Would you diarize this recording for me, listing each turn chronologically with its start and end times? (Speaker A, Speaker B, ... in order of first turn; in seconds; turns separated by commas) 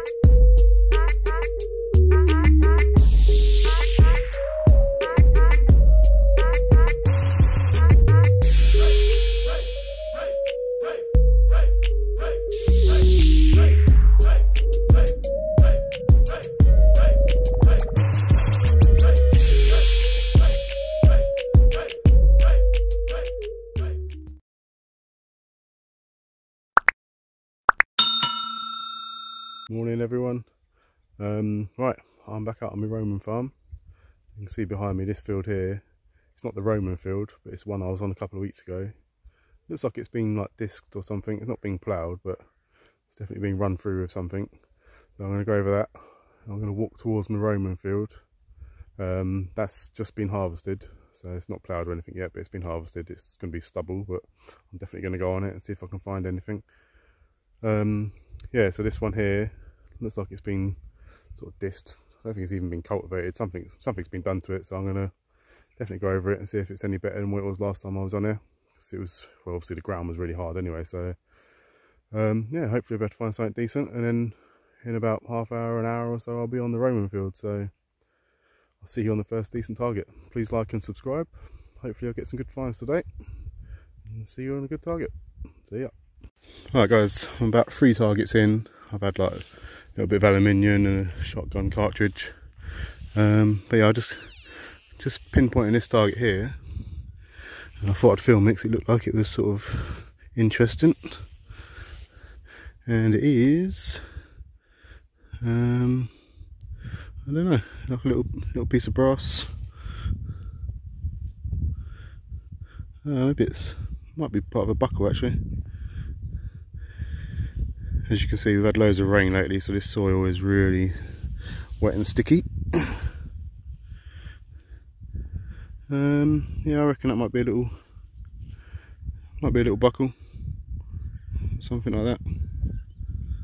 Speaker A: 29.7-30.5, Speaker A: 31.2-33.5, Speaker A: 34.3-38.9, Speaker A: 39.7-42.5, Speaker A: 43.1-44.6, Speaker A: 45.1-48.2, Speaker A: 49.0-56.7, Speaker A: 57.6-60.8, Speaker A: 61.3-65.1, Speaker A: 65.8-71.2, Speaker A: 72.1-77.7, Speaker A: 78.8-83.1, Speaker A: 84.1-85.1, Speaker A: 85.6-85.9, Speaker A: 86.7-96.6, Speaker A: 97.8-101.2, Speaker A: 102.8-104.0, Speaker A: 105.4-106.1, Speaker A: 107.2-109.6, Speaker A: 113.0-115.4, Speaker A: 118.1-121.0, Speaker A: 121.8-123.1, Speaker A: 125.9-127.8, Speaker A: 129.4-130.2, Speaker A: 131.5-132.2